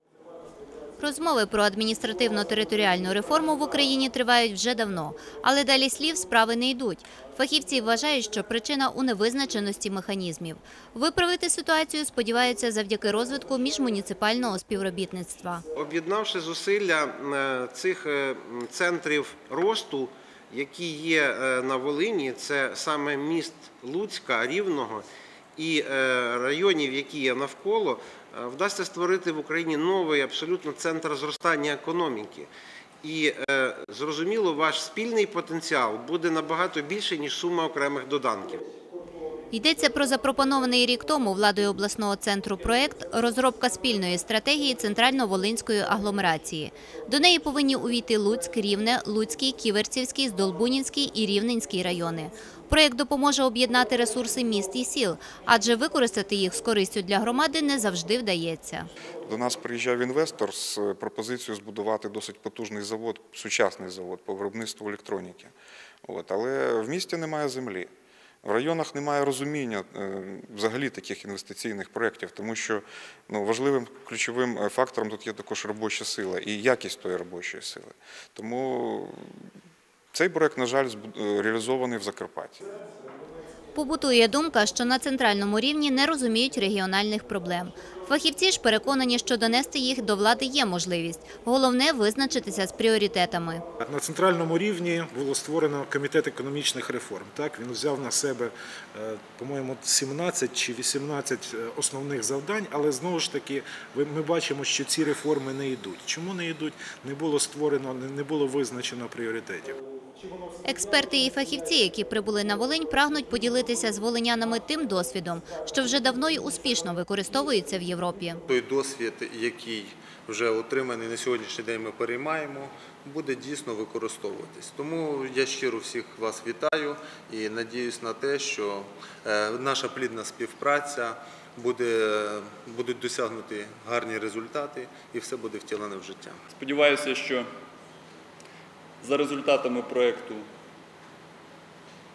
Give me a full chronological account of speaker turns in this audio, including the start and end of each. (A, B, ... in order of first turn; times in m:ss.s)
0:01.0-0:15.6 A
0:15.8-0:25.0 B
0:25.6-0:32.5 B
0:33.0-0:38.6 B
0:39.5-0:58.9 A
0:59.2-1:05.5 C
1:06.0-1:07.9 C
1:08.4-1:19.3 C
1:20.1-1:22.6 C
1:23.8-1:33.6 A
1:33.8-1:49.8 D
1:50.6-1:58.4 A
1:58.5-2:16.4 E
2:16.5-2:17.5 F
2:19.0-2:20.5 F